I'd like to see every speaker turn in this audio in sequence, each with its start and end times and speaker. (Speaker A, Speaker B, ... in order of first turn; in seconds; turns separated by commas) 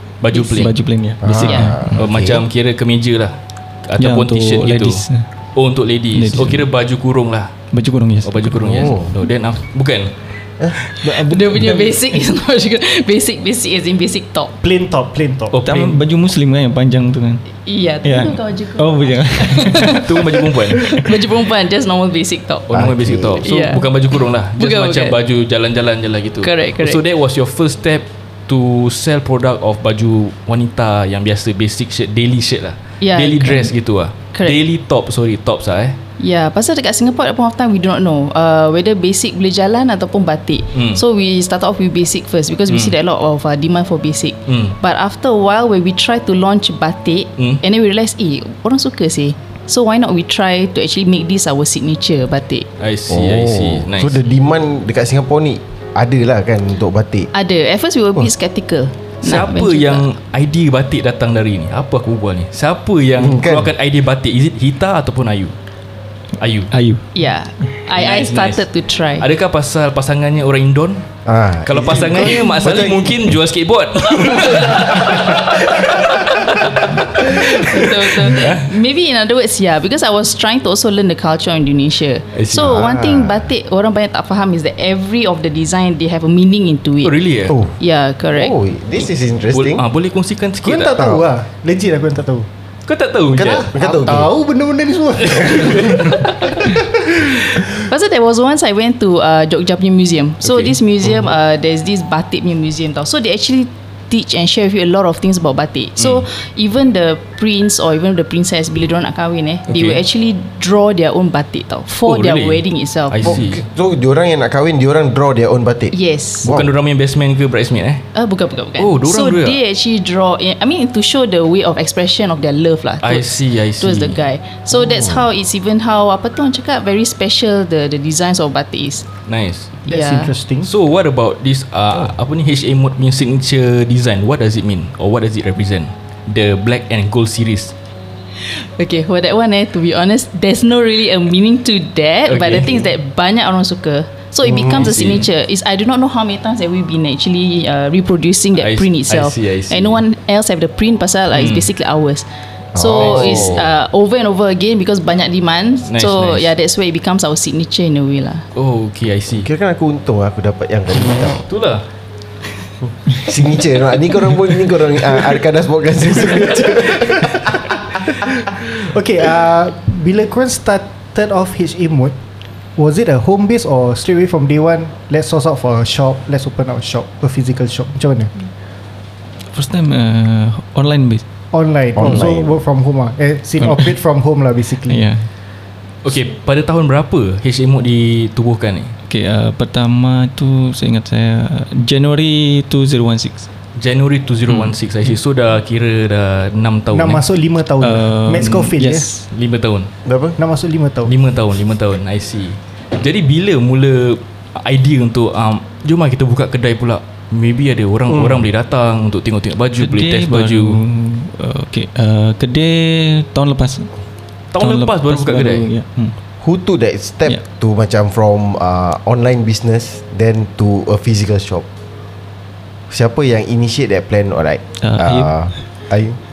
Speaker A: 0.2-0.7, Speaker B: 0.3-2.0, Speaker C: 1.2-2.4, Speaker D: 1.4-1.7, Speaker A: 1.9-5.0, Speaker B: 4.0-5.3, Speaker A: 5.5-7.6, Speaker B: 6.1-6.7, Speaker B: 7.7-8.9, Speaker A: 8.2-10.1, Speaker C: 8.7-9.1, Speaker B: 10.9-12.1, Speaker D: 11.0-14.5, Speaker E: 14.6-15.6, Speaker A: 15.5-16.0, Speaker B: 15.6-17.4, Speaker D: 17.6-22.7, Speaker B: 18.0-21.2, Speaker A: 20.0-20.8, Speaker A: 22.7-36.0, Speaker C: 22.7-23.4, Speaker D: 23.4-25.1, Speaker D: 26.4-27.0, Speaker D: 33.0-33.7, Speaker D: 36.2-52.7, Speaker A: 40.7-41.0, Speaker A: 44.5-44.8, Speaker A: 52.8-54.2, Speaker C: 53.1-57.3, Speaker D: 57.3-60.0, Speaker A: 59.2-65.5, Speaker C: 63.2-63.7, Speaker A: 66.4-66.7, Speaker B: 66.7-67.1, Speaker D: 67.1-69.3, Speaker A: 67.9-68.6, Speaker A: 69.2-71.0, Speaker C: 71.2-73.2, Speaker A: 71.6-78.7, Speaker D: 74.3-74.9, Speaker D: 77.1-87.1, Speaker A: 82.3-82.8, Speaker C: 82.6-83.5, Speaker A: 87.0-87.6, Speaker C: 87.5-87.7, Speaker D: 87.8-88.5, Speaker C: 88.3-89.8, Speaker A: 89.5-91.0, Speaker E: 90.6-92.5, Speaker C: 91.0-91.2, Speaker A: 92.8-93.7, Speaker C: 93.3-94.3, Speaker E: 93.7-97.4, Speaker A: 95.3-96.7, Speaker D: 97.9-113.4, Speaker A: 100.4-100.7, Speaker A: 109.7-110.0, Speaker A: 111.9-113.6, Speaker C: 113.2-116.7, Speaker D: 115.9-116.5, Speaker A: 116.4-118.0, Speaker D: 118.1-129.1, Speaker A: 118.8-119.6, Speaker A: 123.0-124.2, Speaker C: 124.8-125.2, Speaker A: 129.3-129.7, Speaker D: 129.8-130.3, Speaker E: 129.9-130.7, Speaker A: 130.6-137.7, Speaker D: 138.4-158.4, Speaker A: 142.3-142.8, Speaker C: 144.4-144.9, Speaker A: 144.7-145.3, Speaker A: 148.6-150.0, Speaker A: 151.3-151.7, Speaker C: 152.7-153.6, Speaker A: 153.0-153.6, Speaker A: 155.9-156.5, Speaker A: 158.5-159.5, Speaker C: 159.4-161.4, Speaker A: 161.1-161.8, Speaker C: 163.1-168.5, Speaker E: 167.0-167.5, Speaker E: 168.2-172.1, Speaker E: 172.8-178.3, Speaker B: 179.5-181.2, Speaker E: 181.5-185.0, Speaker C: 181.9-182.5, Speaker B: 183.6-183.9, Speaker B: 184.8-185.3, Speaker A: 186.0-188.9, Speaker B: 189.1-193.5, Speaker A: 193.8-197.2, Speaker E: 196.9-199.1, Speaker B: 197.8-199.3, Speaker A: 199.3-199.9, Speaker C: 200.0-200.4, Speaker E: 200.4-201.1, Speaker A: 201.1-210.8, Speaker C: 208.1-208.5, Speaker B: 209.8-213.9, Speaker A: 214.5-215.7, Speaker B: 214.6-216.2, Speaker C: 216.4-221.6, Speaker C: 222.9-226.2, Speaker B: 224.8-225.6